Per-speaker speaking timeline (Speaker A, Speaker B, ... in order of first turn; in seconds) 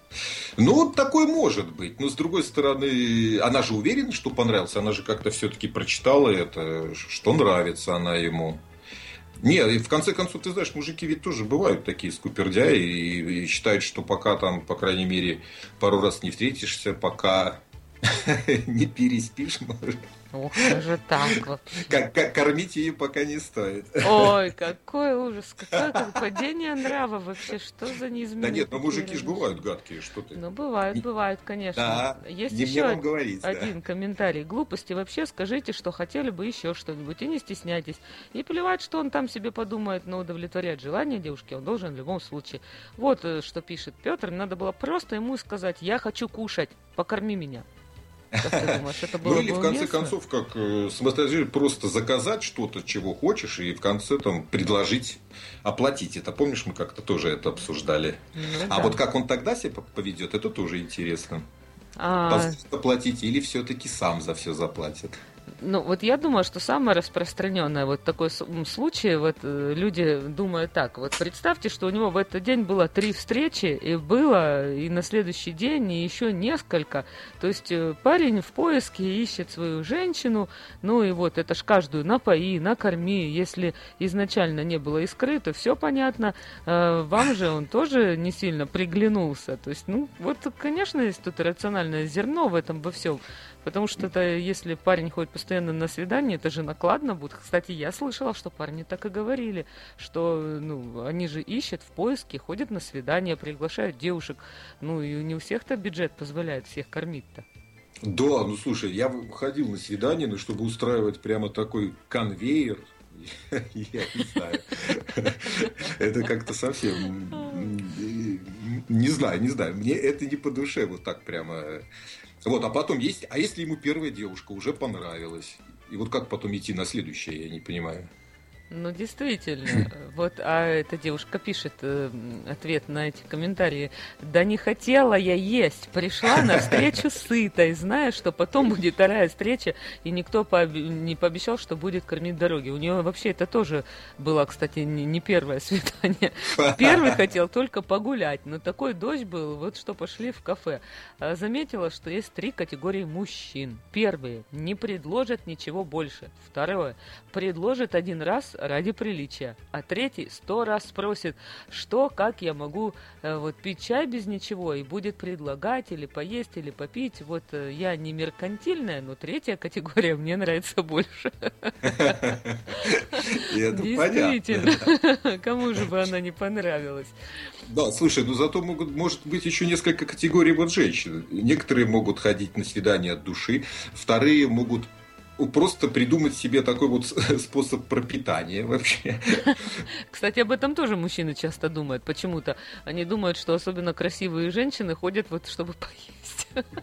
Speaker A: 0.6-8.6, 9.4-20.0, 20.6-24.4, 25.8-26.1, 28.4-30.4, 31.8-33.7, 48.4-61.5, 62.3-65.2, 108.0-121.8, 122.5-128.1, 136.3-136.7, 146.6-147.1, 171.8-174.9, 177.7-189.6
Speaker B: 20.3-21.8, 24.0-29.5, 30.4-47.7, 48.4-50.1, 58.4-59.0, 62.0-62.6, 65.6-107.5, 128.7-172.1, 173.7-177.2, 190.1-196.6